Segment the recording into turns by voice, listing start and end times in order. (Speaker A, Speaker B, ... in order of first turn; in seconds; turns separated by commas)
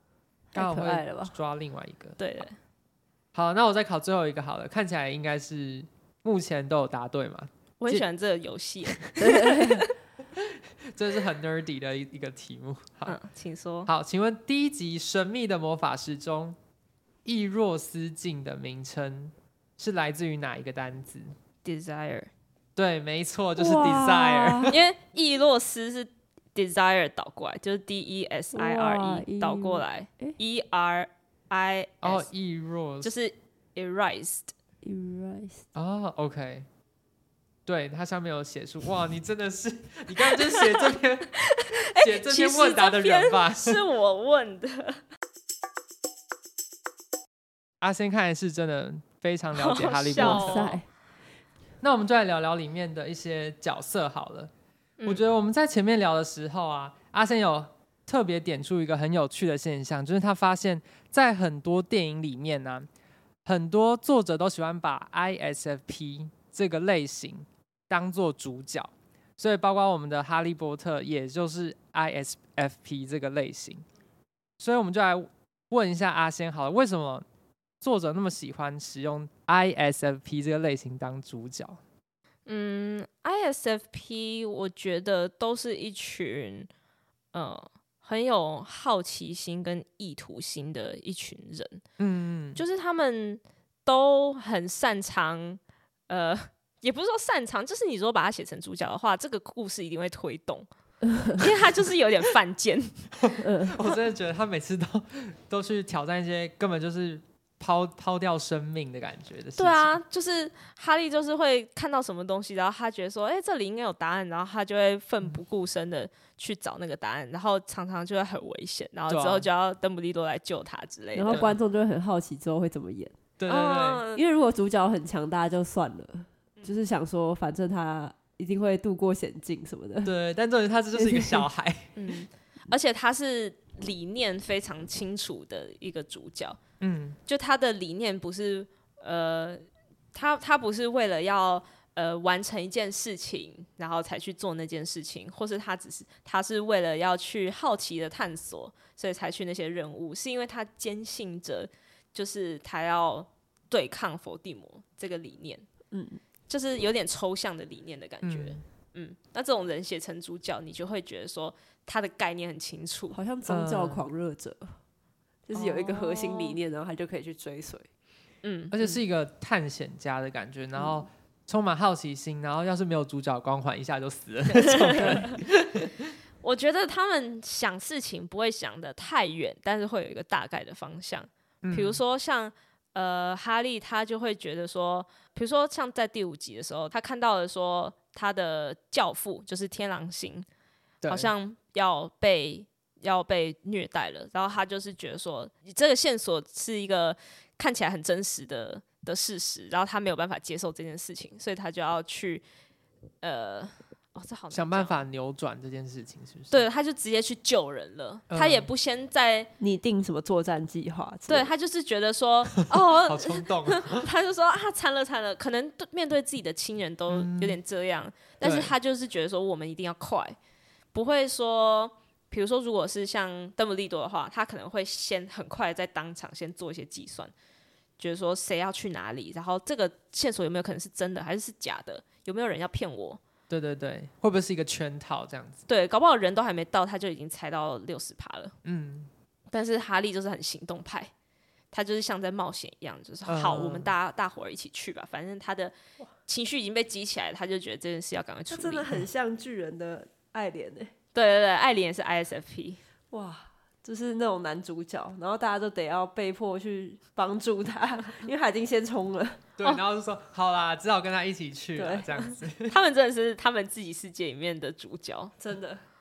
Speaker A: 0.5-1.3, Speaker B: 0.5-2.2, Speaker C: 2.2-2.5, Speaker B: 3.3-8.0, Speaker C: 7.8-9.9, Speaker A: 9.2-9.9, Speaker B: 10.3-13.2, Speaker C: 13.1-13.9, Speaker B: 13.9-16.6, Speaker B: 17.2-21.3, Speaker C: 21.6-22.3, Speaker B: 22.8-24.8, Speaker A: 23.6-24.8, Speaker C: 24.7-32.2, Speaker A: 28.5-30.4, Speaker B: 32.0-33.1, Speaker C: 33.0-34.5, Speaker A: 34.8-35.6, Speaker B: 35.7-36.7, Speaker B: 37.6-43.8, Speaker C: 40.3-40.9, Speaker C: 41.4-45.0, Speaker B: 47.8-50.7, Speaker C: 49.5-50.8, Speaker A: 50.1-50.9, Speaker B: 51.8-54.5, Speaker B: 55.0-62.9, Speaker B: 63.4-73.8, Speaker B: 74.6-77.2, Speaker B: 77.8-81.8, Speaker C: 82.5-86.7, Speaker C: 87.3-91.8, Speaker B: 92.0-92.6, Speaker C: 92.5-100.7, Speaker C: 101.3-103.1, Speaker B: 103.2-109.9, Speaker A: 103.4-103.7, Speaker C: 109.6-121.5, Speaker B: 119.1-119.5, Speaker A: 121.1-123.2, Speaker B: 121.3-121.5, Speaker B: 123.4-124.0, Speaker C: 123.5-124.2, Speaker A: 124.1-130.1, Speaker C: 126.6-126.8, Speaker B: 130.0-131.9, Speaker A: 130.9-131.5, Speaker C: 131.9-136.6, Speaker B: 136.8-137.2, Speaker C: 137.3-139.6, Speaker C: 140.1-155.7, Speaker A: 155.9-156.2, Speaker C: 156.5-163.2, Speaker B: 158.2-158.6, Speaker A: 163.1-164.7, Speaker B: 163.5-164.1, Speaker A: 165.4-167.9, Speaker C: 165.5-166.6, Speaker C: 168.4-168.9, Speaker B: 168.7-176.0, Speaker C: 174.5-175.5, Speaker C: 176.4-190.5, Speaker B: 181.6-182.0, Speaker B: 191.0-191.3, Speaker C: 191.1-202.4, Speaker C: 203.2-204.9, Speaker B: 204.5-206.6, Speaker C: 206.5-209.5, Speaker B: 208.3-208.7, Speaker A: 209.6-211.5, Speaker C: 211.3-220.3, Speaker B: 212.6-214.1, Speaker B: 217.1-217.6, Speaker B: 218.4-218.7, Speaker C: 220.9-227.3, Speaker C: 228.0-233.2, Speaker B: 233.5-235.6, Speaker C: 235.7-238.5, Speaker B: 238.6-239.1, Speaker C: 239.5-241.1, Speaker C: 241.7-245.7, Speaker B: 243.2-243.9, Speaker C: 246.3-248.9, Speaker A: 248.5-250.9, Speaker C: 251.1-252.8, Speaker A: 253.1-259.4, Speaker B: 259.6-262.8, Speaker A: 261.8-262.2, Speaker C: 262.7-265.3, Speaker A: 265.4-265.8